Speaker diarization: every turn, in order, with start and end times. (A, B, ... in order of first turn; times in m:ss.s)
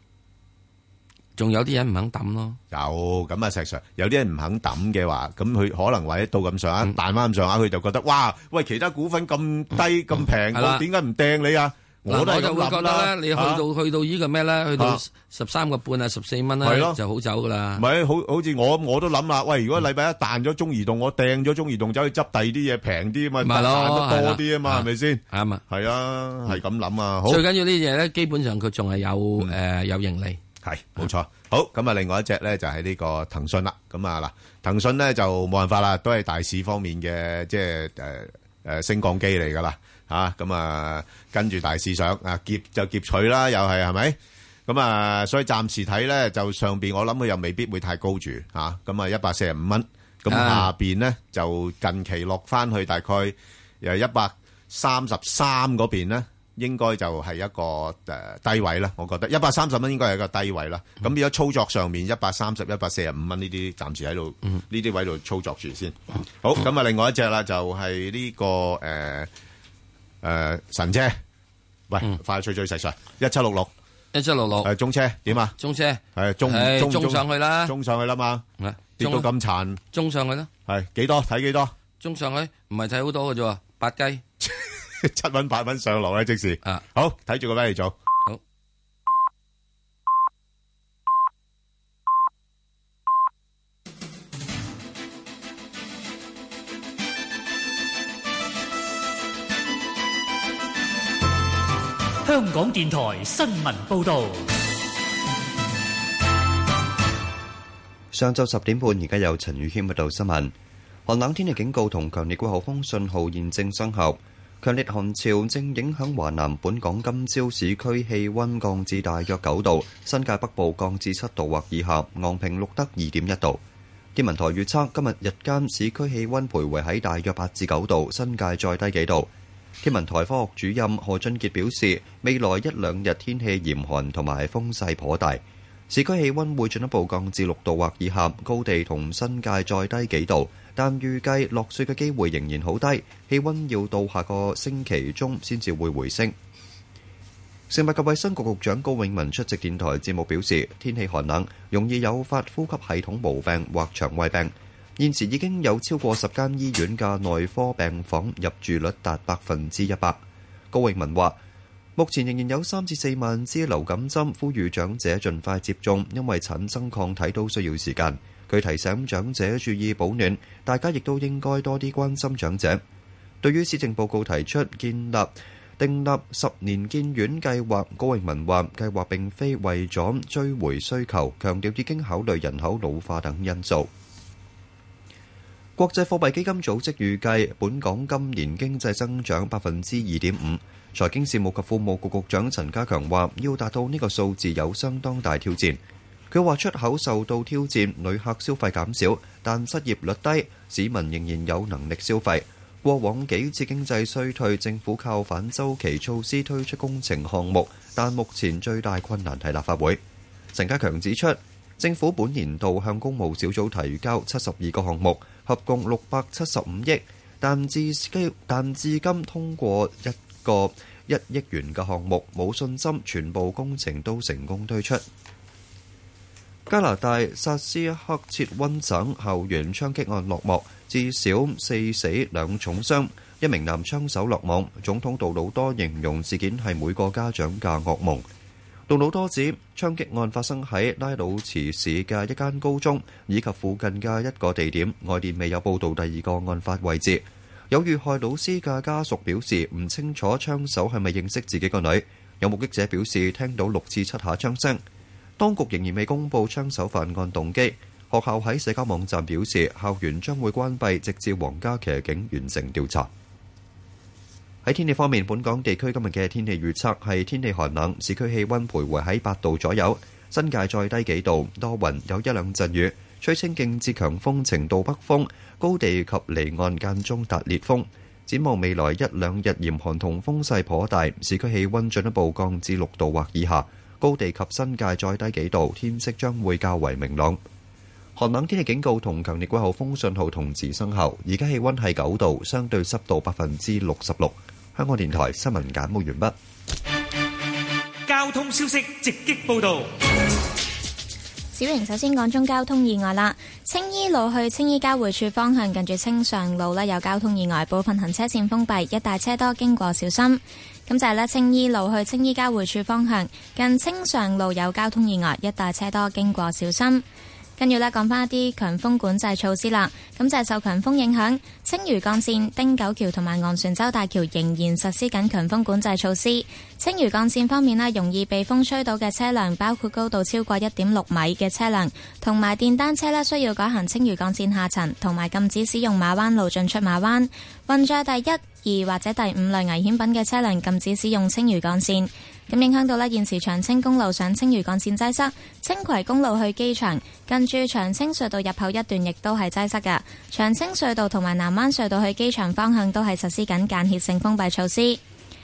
0:01.4-0:02.6 A
0:02.7-0:13.6 B
0:10.5-0:10.8 A
0:12.1-0:17.8 A
0:16.6-0:17.0 B
0:17.8-0:27.4 B
0:23.4-0:25.6 A
0:27.3-0:30.4 A
0:30.6-0:44.2 B
0:44.7-1:09.3 B
0:50.3-0:50.7 A
1:10.2-1:11.2 B
1:11.9-1:13.7 B
1:14.1-1:14.7 A
1:14.6-1:15.6 B
1:15.6-1:17.7 A
1:16.2-1:18.4 B
1:18.6-1:19.3 A
1:19.0-1:19.8 B
1:19.9-1:20.5 A
1:20.7-1:21.7 B
1:22.0-1:24.2 A
1:24.4-1:27.9 B
1:42.3-1:44.5 C
1:48.1-1:50.6 D
1:51.1-2:03.6 D
2:04.2-2:09.3 D
2:09.8-2:26.4 D
2:27.7-2:41.4 D
2:42.0-2:52.8 D
2:53.4-3:03.9 D
3:05.8-3:30.0 D
3:30.5-3:45.0 D
3:46.7-3:58.2 D
3:58.9-4:14.8 D
4:15.4-4:23.1 D
4:24.6-4:47.4 D
4:48.2-4:56.4 D
4:58.1-4:59.9 C
5:01.5-5:17.0 E
5:17.6-5:55.0 E